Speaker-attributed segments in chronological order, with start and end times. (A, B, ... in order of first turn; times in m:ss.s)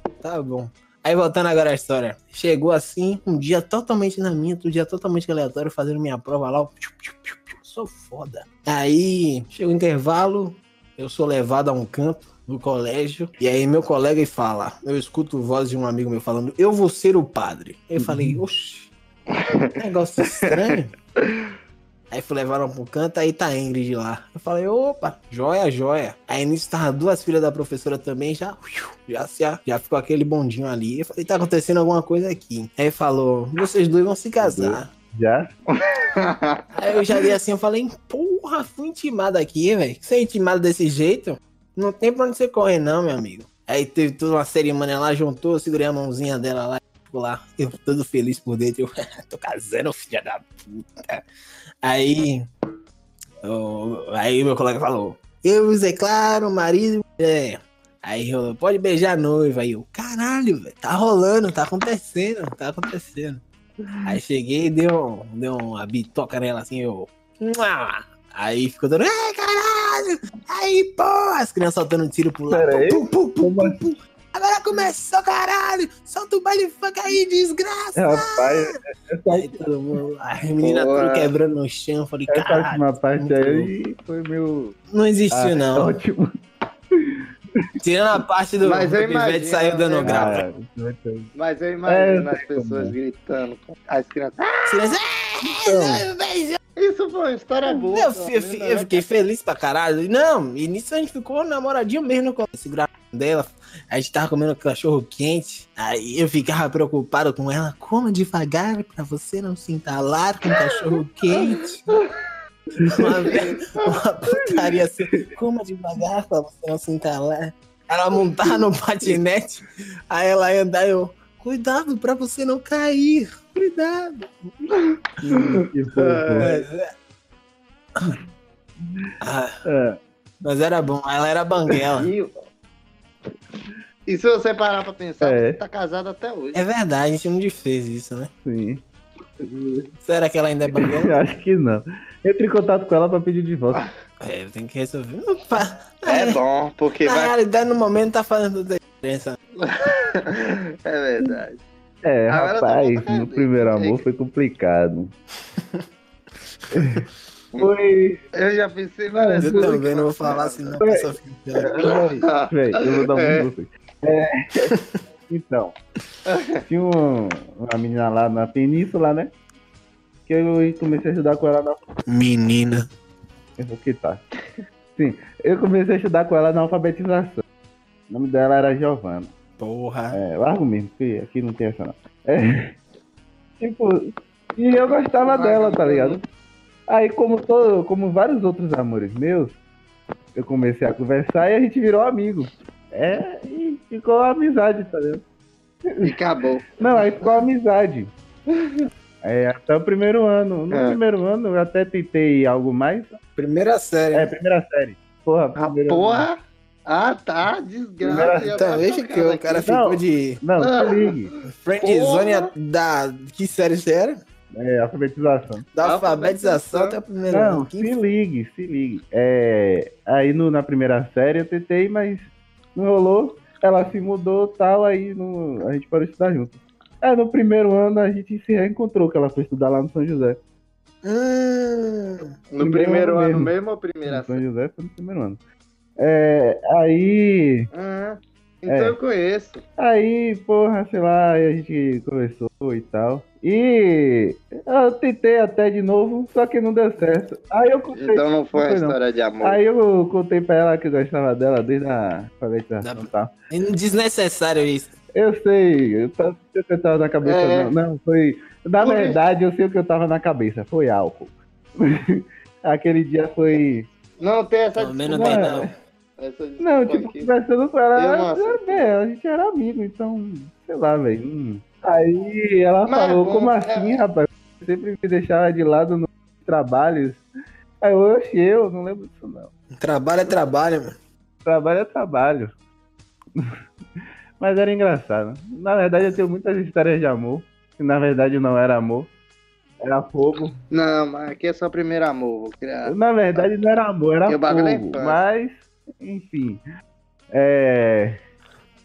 0:00.2-0:18.9 A
0:18.0-0:18.4 B
0:19.3-0:19.8 C
0:19.8-0:20.9 A
0:20.4-0:21.4 C
0:22.1-0:34.9 A
0:34.4-0:35.5 B
0:35.8-0:36.6 C
0:36.7-0:51.2 A
0:51.8-0:52.4 A
0:53.4-1:03.4 A
1:04.0-1:18.7 A
1:12.5-1:13.8 B
1:18.0-1:19.6 B
1:19.3-1:23.7 A
1:20.6-1:21.3 C
1:22.3-1:24.8 B
1:24.9-1:25.9 A
1:25.3-1:26.2 B
1:27.8-1:30.4 A
1:28.6-1:30.4 C
1:30.0-1:31.3 B
1:31.3-1:34.9 C
1:31.8-1:33.0 B
1:34.7-1:36.1 A
1:35.7-1:39.0 C
1:37.7-1:51.9 A
1:51.4-1:52.0 C
1:52.8-1:53.3 B
1:52.9-2:04.3 A
1:53.2-1:53.9 C
2:04.7-2:06.6 C
2:05.2-2:06.5 B
2:06.4-2:06.9 A
2:09.2-2:09.6 A
2:09.6-2:10.0 B
2:10.4-2:12.1 A
2:12.0-2:12.3 C
2:14.1-2:16.6 C
2:15.2-2:15.6 B
2:16.5-2:18.3 A
2:18.4-2:18.8 B
2:19.4-2:19.9 B
2:20.0-2:21.2 A
2:20.7-2:23.9 B
2:24.2-2:26.4 A
2:26.0-2:27.3 C
2:27.0-2:29.4 A
2:29.6-2:31.6 C
2:32.0-2:35.1 B
2:32.3-2:34.0 C
2:35.5-2:35.8 A
2:36.7-2:37.0 B
2:37.6-2:38.2 B
2:38.3-2:40.8 C
2:39.1-2:39.8 B
2:39.4-2:41.9 A
2:40.8-2:44.7 B
2:41.6-2:43.5 C
2:45.3-2:45.7 B
2:46.2-2:46.6 C
2:46.7-2:49.3 B
2:50.3-2:51.8 B
2:52.1-2:52.8 A
2:53.6-2:54.2 B
2:55.0-2:57.4 B
2:58.1-2:59.3 B
2:59.6-3:00.2 A
3:00.1-3:02.7 B
3:03.6-3:06.2 B
3:05.2-3:06.2 C
3:06.9-3:09.6 B
3:10.4-3:15.2 B
3:15.9-3:16.2 B
3:16.0-3:17.3 C
3:16.8-3:18.1 B
3:18.6-3:18.8 C
3:19.2-3:23.2 B
3:20.7-3:21.0 C
3:23.4-3:24.3 A
3:24.1-3:26.3 B
3:25.6-3:29.7 C
3:28.0-3:28.5 B
3:28.4-3:30.4 A
3:29.6-3:31.3 B
3:30.6-3:32.5 C
3:31.5-3:34.2 A
3:34.5-3:35.6 B
3:35.7-3:37.9 A
3:35.8-3:37.0 C
3:37.3-3:50.4 B
3:51.0-3:52.3 A
3:52.5-3:54.4 C
3:52.6-3:53.5 B
3:54.0-3:55.4 B
3:56.0-3:57.7 B
3:57.7-3:59.6 C
3:58.7-3:59.0 B
3:59.8-4:13.3 B
4:07.9-4:09.6 C
4:12.8-4:14.9 A
4:15.1-4:23.9 B
4:17.2-4:17.7 C
4:18.8-4:19.2 C
4:24.2-4:27.3 C
4:24.8-4:25.7 A
4:25.1-4:25.7 B
4:26.6-4:37.2 B
4:27.9-4:29.0 C
4:32.9-4:34.0 C
4:37.8-4:39.5 B
4:39.8-4:40.9 A
4:41.4-4:42.5 B
4:44.4-4:49.1 B
4:49.8-4:50.5 B
4:50.7-4:53.5 C
4:52.8-4:56.6 B
4:54.3-4:55.2 C
4:57.3-4:58.2 B